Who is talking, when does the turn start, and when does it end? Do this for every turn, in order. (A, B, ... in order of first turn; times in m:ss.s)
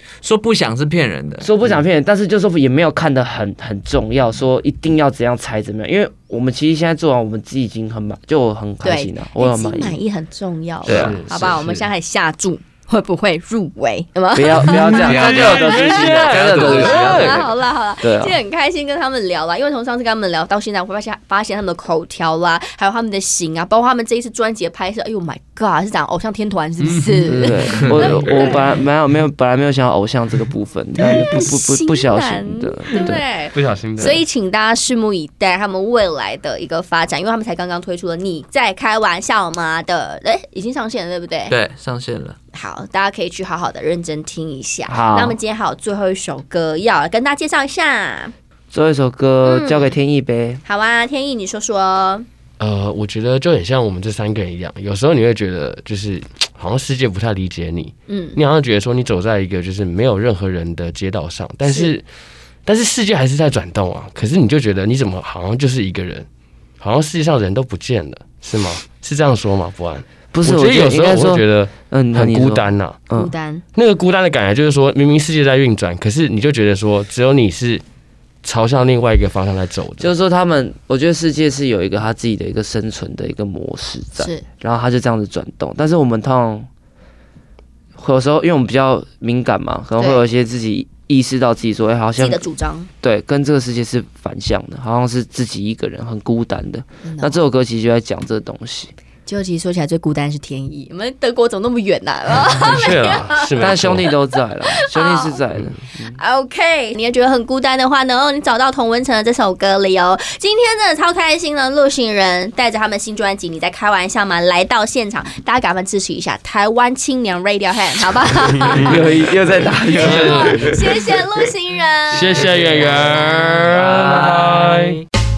0:00.2-0:01.5 A
0:01.4-0:10.0 B
0:08.8-0:15.1 C
0:10.8-0:11.2 B
0:10.9-0:11.9 D
0:14.3-0:17.5 B
0:14.7-0:17.4 A
0:15.0-0:17.4 D
0:16.7-0:28.7 C
0:18.0-0:18.4 B
0:26.8-0:28.0 D
0:27.3-0:33.2 B
0:31.0-0:41.6 C
0:32.9-0:34.2 D
0:41.5-0:42.4 A
0:42.5-0:48.3 C
0:44.9-0:45.4 B
0:48.7-0:50.6 B
0:49.4-0:50.0 C
0:50.6-0:52.3 C
0:52.6-1:02.0 D
0:58.1-0:58.4 C
1:01.6-1:01.9 C
1:02.7-1:06.3 D
1:06.8-1:13.0 D
1:10.3-1:13.3 B
1:13.1-1:13.6 C
1:13.8-1:17.8 D
1:18.4-1:20.1 D
1:20.0-1:26.7 B
1:24.2-1:24.4 C
1:28.0-1:32.5 B
1:30.0-1:30.2 C
1:32.2-1:32.9 C
1:33.0-1:38.9 B
1:37.0-1:37.4 C
1:39.3-1:43.5 C
1:42.6-1:44.1 D
1:43.6-1:46.2 B
1:44.7-1:45.4 C
1:46.2-1:59.2 C
1:58.7-2:00.8 B
2:00.0-2:00.8 D
2:00.0-2:02.4 C
2:02.1-2:05.0 D